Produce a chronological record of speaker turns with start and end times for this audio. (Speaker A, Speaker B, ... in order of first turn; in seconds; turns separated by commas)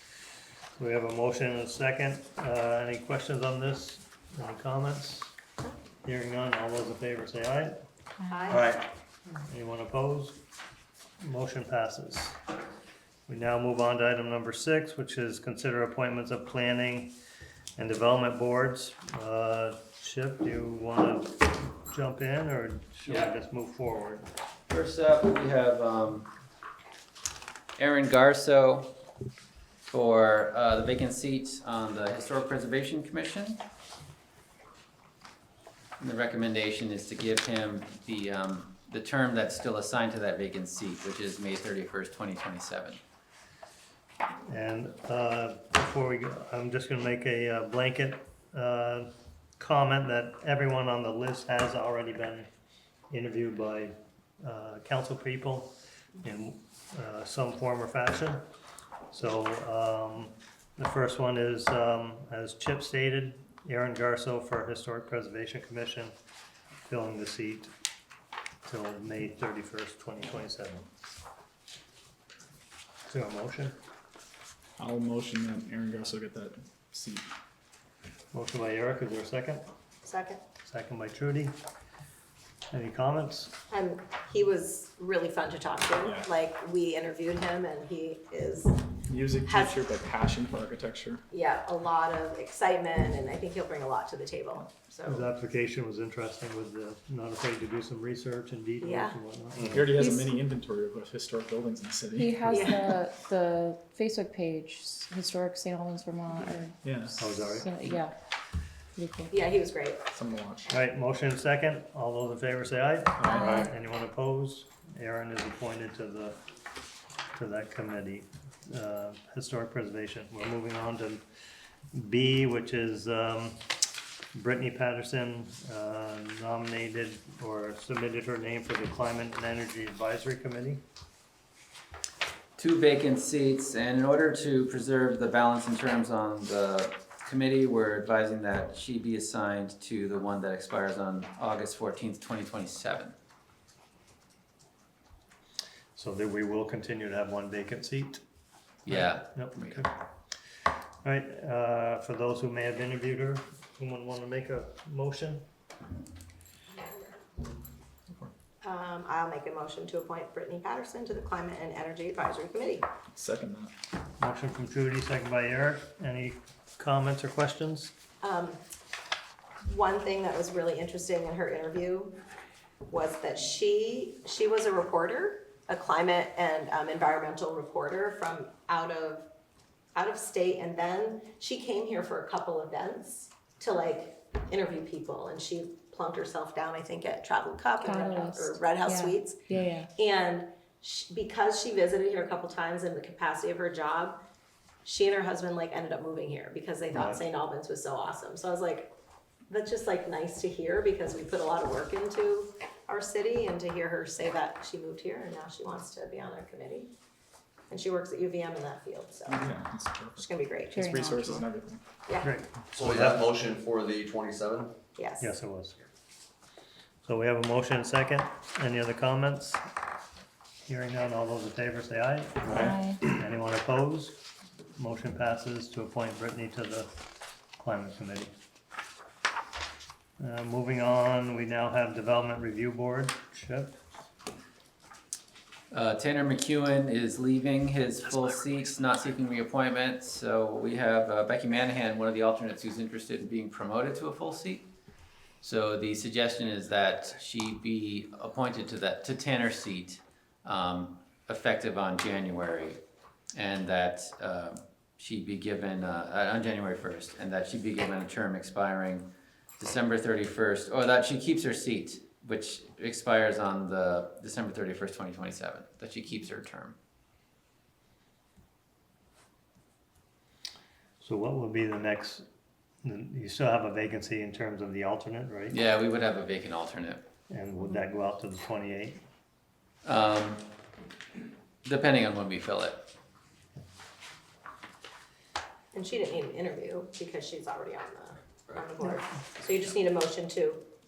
Speaker A: 0.8-5.3, Speaker A: 6.0-7.8, Speaker B: 8.3-8.7, Speaker A: 8.5-8.9, Speaker A: 9.5-10.4, Speaker A: 11.2-12.4, Speaker A: 13.3-17.2, Speaker A: 17.8-24.3, Speaker C: 23.1-23.3, Speaker C: 24.7-26.3, Speaker C: 27.8-29.0, Speaker C: 29.9-33.6, Speaker C: 36.0-43.0, Speaker A: 44.5-52.5, Speaker A: 53.1-58.4, Speaker A: 59.1-66.1, Speaker A: 66.8-67.7, Speaker A: 68.7-70.9, Speaker A: 73.1-73.8, Speaker D: 74.8-77.3, Speaker A: 78.3-79.7, Speaker B: 80.0-80.4, Speaker A: 80.7-81.6, Speaker A: 82.7-83.5, Speaker B: 83.7-88.8, Speaker D: 89.1-91.2, Speaker B: 89.5-89.7, Speaker B: 91.3-95.3, Speaker A: 95.1-99.8, Speaker B: 98.8-99.2, Speaker E: 99.5-99.9, Speaker D: 99.7-102.8, Speaker F: 99.9-100.3, Speaker F: 102.2-108.1, Speaker B: 102.5-102.8, Speaker D: 106.8-107.2, Speaker A: 107.2-107.7, Speaker F: 109.0-109.4, Speaker B: 109.3-110.0, Speaker D: 110.1-110.7, Speaker A: 110.7-116.4, Speaker D: 113.2-113.5, Speaker F: 113.4-113.6, Speaker A: 117.3-121.2, Speaker A: 121.9-123.6, Speaker A: 124.3-130.8, Speaker C: 132.6-143.1, Speaker A: 146.0-148.2, Speaker C: 148.9-149.9, Speaker A: 148.9-149.9, Speaker A: 151.0-155.4, Speaker B: 156.8-157.1, Speaker B: 158.6-162.8, Speaker D: 163.1-163.7, Speaker A: 164.2-167.9, Speaker B: 168.2-168.6, Speaker B: 169.7-172.2, Speaker B: 172.9-179.3, Speaker B: 179.9-189.4, Speaker F: 187.8-189.9, Speaker B: 190.0-194.2, Speaker B: 194.8-198.9, Speaker A: 196.9-197.2, Speaker B: 199.5-206.9, Speaker B: 207.7-209.5, Speaker D: 209.3-211.8, Speaker B: 210.2-210.8, Speaker F: 210.7-211.4, Speaker B: 212.1-212.3, Speaker A: 212.2-213.3, Speaker E: 212.8-214.8, Speaker B: 215.0-215.3, Speaker A: 215.2-215.8, Speaker A: 217.0-219.6, Speaker A: 220.7-224.2, Speaker F: 222.6-223.1, Speaker A: 224.8-226.9, Speaker A: 227.6-228.3, Speaker A: 230.2-233.8, Speaker C: 235.7-244.7, Speaker C: 245.4-252.8, Speaker C: 253.3-266.8, Speaker A: 271.0-272.2, Speaker A: 272.8-275.6, Speaker C: 275.5-277.1, Speaker A: 277.3-279.0, Speaker C: 279.9-280.5, Speaker C: 281.6-282.8, Speaker B: 285.7-290.6